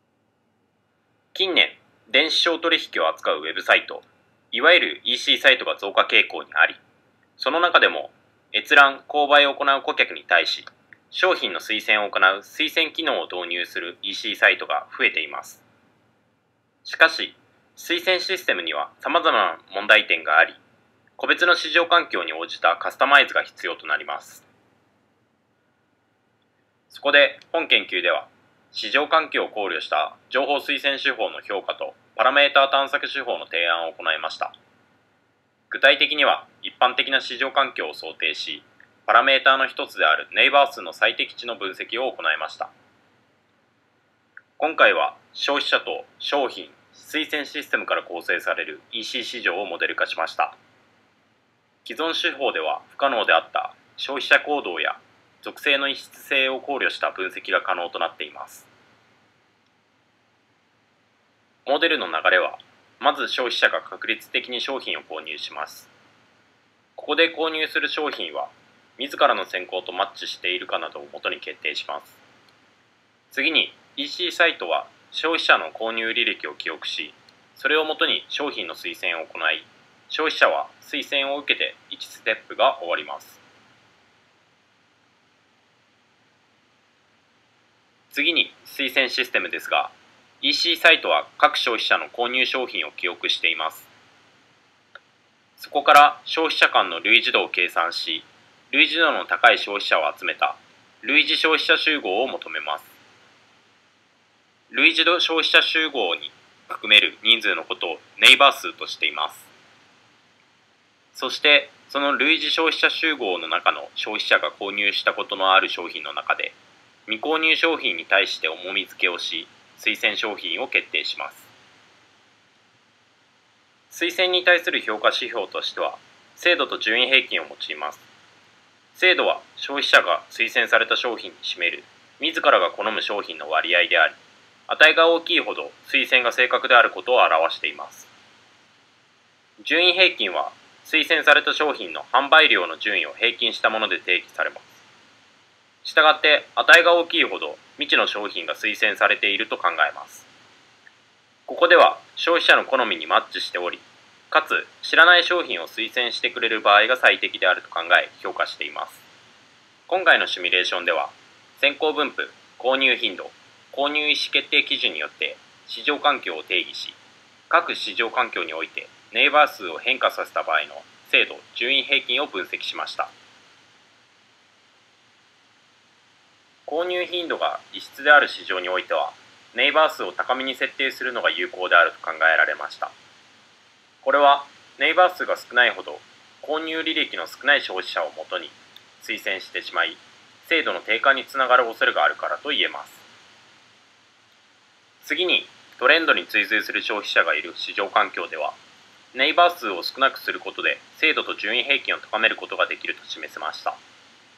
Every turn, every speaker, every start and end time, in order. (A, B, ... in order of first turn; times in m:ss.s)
0:01.3-0:06.8 A
0:07.4-0:15.6 A
0:16.8-0:20.6 A
0:21.2-0:24.5 A
0:26.9-0:34.6 A
0:35.7-0:42.7 A
0:44.6-0:50.6 A
0:51.8-0:58.7 A
1:01.7-1:05.9 A
1:07.0-1:12.2 A
1:13.3-1:23.4 A
1:28.1-1:33.9 A
1:35.6-1:43.0 A
1:44.7-1:49.5 A
1:51.1-2:01.5 A
2:03.9-2:08.0 A
2:08.9-2:18.1 A
2:19.6-2:24.8 A
2:25.8-2:30.3 A
2:31.5-2:39.0 A
2:39.9-2:47.0 A
2:47.5-2:53.1 A
2:56.7-3:02.9 A
3:04.0-3:13.0 A
3:15.0-3:18.6 A
3:19.1-3:23.8 A